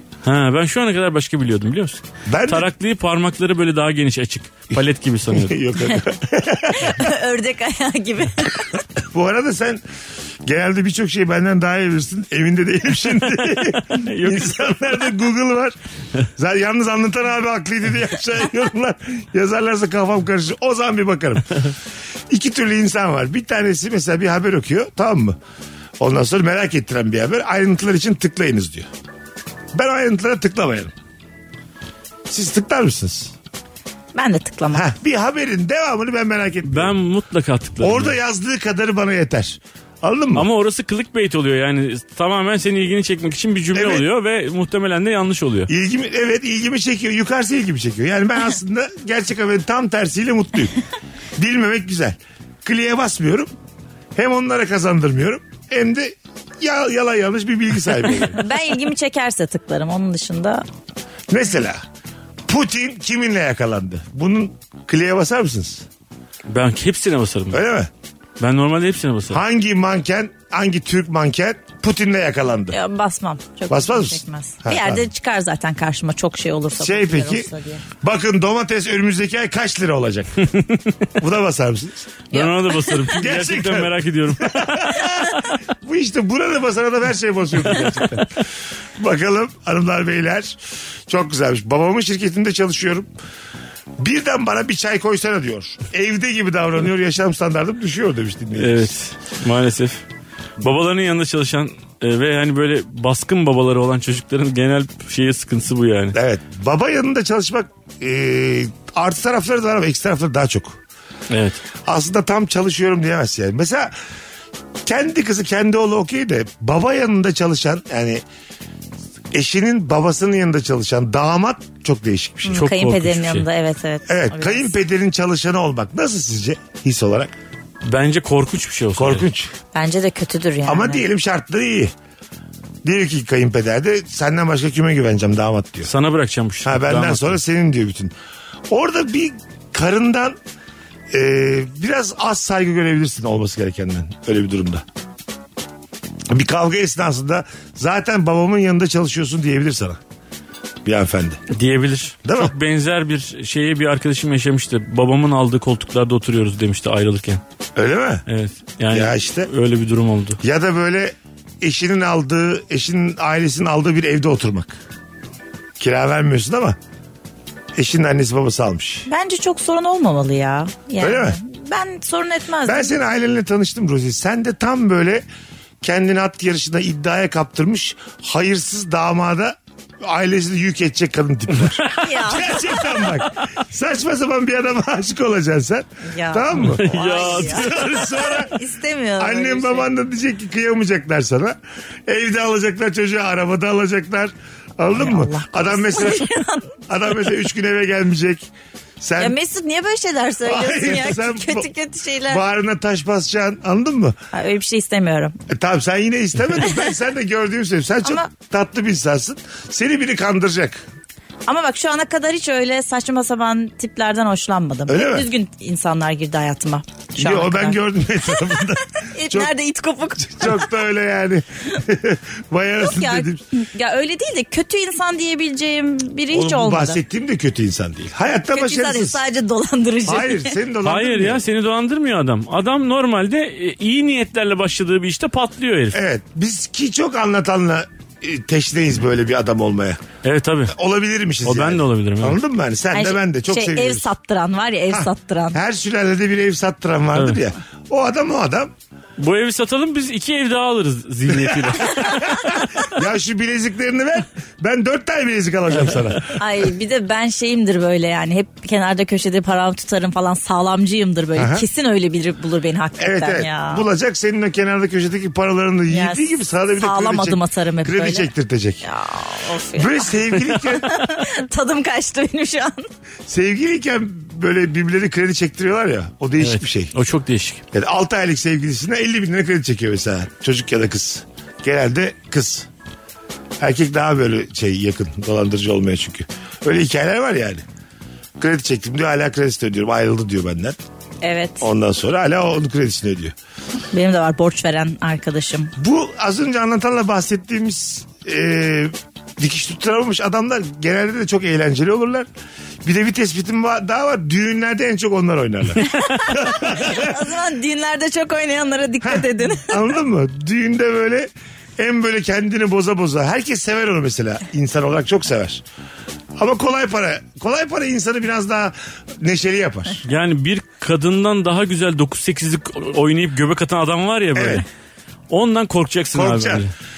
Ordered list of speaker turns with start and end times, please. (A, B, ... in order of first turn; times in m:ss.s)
0:00.2-0:05.6 A
0:02.3-0:02.7 B
0:05.3-0:07.0 B
0:06.6-0:08.8 C
0:09.1-0:09.8 B
0:10.4-0:15.8 B
0:13.9-0:14.8 A
0:16.4-0:21.6 B
0:22.3-0:25.4 B
0:26.0-0:28.9 B
0:29.7-0:30.9 B
0:32.3-0:33.3 B
0:34.1-0:34.9 C
0:34.7-0:37.0 B
0:36.7-0:38.2 A
0:37.8-0:40.5 B
0:40.4-0:45.7 A
0:43.7-0:44.0 B
0:45.7-0:50.8 B
0:51.4-0:53.5 B
0:54.2-0:58.4 B
0:58.4-1:00.6 C
1:01.3-1:01.8 B
1:02.5-1:05.9 B
1:06.5-1:07.6 A
1:07.5-1:07.9 B
1:08.4-1:09.4 A
1:09.3-1:12.8 B
1:12.7-1:17.8 C
1:13.7-1:15.1 B
1:16.8-1:17.5 B
1:18.0-1:20.5 B
1:20.5-1:20.9 A
1:21.2-1:22.1 B
1:22.3-1:23.1 C
1:22.3-1:24.9 A
1:23.1-1:28.4 B
1:29.0-1:33.1 B
1:34.0-1:38.9 B
1:38.6-1:40.0 A
1:40.6-1:46.2 A
1:46.2-1:50.8 B
1:51.3-1:51.6 A
1:51.8-1:54.0 B
1:54.8-1:58.2 B
1:59.3-2:02.6 B
2:02.4-2:04.7 C
2:02.6-2:03.5 A
2:04.1-2:07.3 B
2:07.8-2:09.3 A
2:09.0-2:09.5 B
2:09.7-2:11.0 C
2:10.6-2:11.9 B
2:12.8-2:15.9 B
2:15.8-2:17.4 A
2:16.6-2:18.1 B
2:18.7-2:20.4 B
2:21.1-2:24.8 B
2:26.3-2:30.0 B
2:30.8-2:31.4 B
2:31.5-2:37.4 A
2:32.2-2:32.5 B
2:37.8-2:38.2 B
2:38.3-2:40.4 A
2:38.9-2:39.5 B
2:40.4-2:44.8 B
2:45.8-2:46.8 B
2:47.8-2:49.1 B
2:49.1-2:52.9 C
2:51.0-2:51.4 B
2:52.7-2:55.2 B
2:55.8-3:08.6 B
3:01.7-3:02.1 A
3:02.0-3:02.8 C
3:06.1-3:09.9 C
3:06.6-3:08.2 A
3:09.2-3:11.6 B
3:12.1-3:18.5 B
3:15.0-3:16.8 C
3:19.0-3:19.4 B
3:19.2-3:22.4 C
3:20.4-3:21.7 B
3:22.3-3:24.2 B
3:24.3-3:25.4 C
3:25.5-3:30.9 B
3:31.5-3:37.8 C
3:34.9-3:35.3 B
3:37.2-3:39.5 B
3:39.2-3:40.7 C
3:40.4-3:43.4 B
3:42.8-3:47.0 C
3:46.3-3:49.2 B
3:48.5-3:50.5 C
3:50.0-3:51.4 B
3:50.8-3:56.0 A
3:55.9-4:00.0 B
4:00.2-4:00.7 A
4:00.7-4:04.1 B
4:01.4-4:02.4 A
4:02.9-4:05.6 C
4:04.9-4:08.7 B
4:07.2-4:07.4 A
4:09.2-4:12.5 A
4:11.4-4:16.4 B
4:16.4-4:23.8 C
4:21.4-4:21.6 B
4:23.0-4:28.9 B
4:25.9-4:28.3 C
4:28.8-4:32.9 C
4:29.7-4:31.0 B
4:33.3-4:36.9 B
4:36.4-4:37.6 A
4:37.7-4:42.7 B
4:43.6-4:47.6 B
4:48.4-4:50.8 B
4:51.2-4:51.7 C
4:51.6-4:53.4 B
4:53.9-4:55.7 C
4:55.8-5:02.3 B
5:02.8-5:07.2 B
5:05.8-5:09.8 C
5:09.0-5:15.6 B
5:16.4-5:20.0 B
5:20.0-5:24.7 A
5:24.4-5:24.6 B
5:25.3-5:26.7 A
5:26.1-5:26.7 B